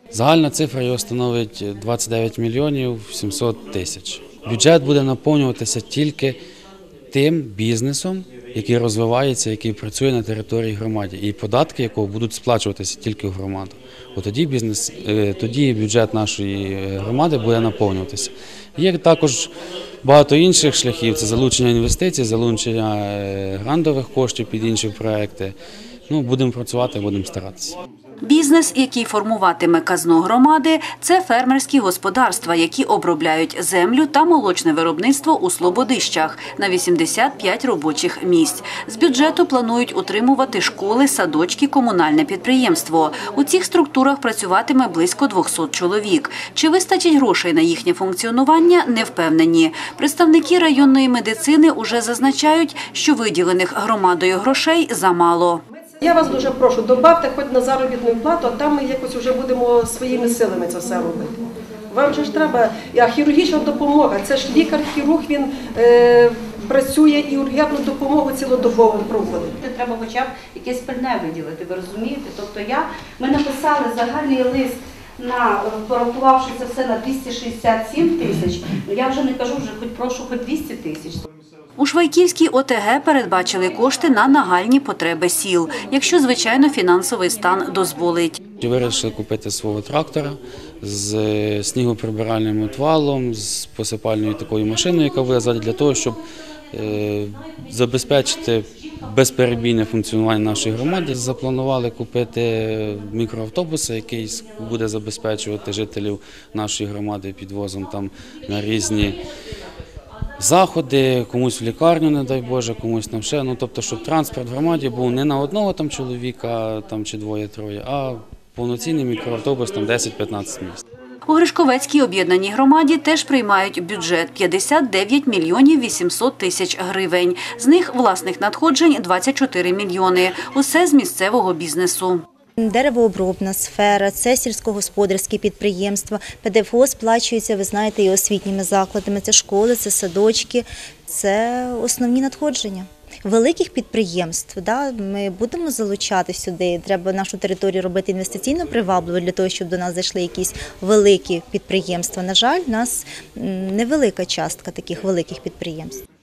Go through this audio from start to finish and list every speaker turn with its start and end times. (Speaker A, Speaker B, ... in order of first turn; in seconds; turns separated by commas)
Speaker A: 0.1-6.4, Speaker A: 7.1-19.5, Speaker A: 20.0-25.6, Speaker A: 26.1-27.8, Speaker B: 28.2-55.6, Speaker C: 56.0-61.3, Speaker C: 61.9-69.6, Speaker D: 69.6-81.2, Speaker B: 81.8-88.4, Speaker A: 88.6-96.2, Speaker A: 96.7-109.2, Speaker A: 110.4-120.8, Speaker B: 121.3-132.2, Speaker E: 132.6-156.0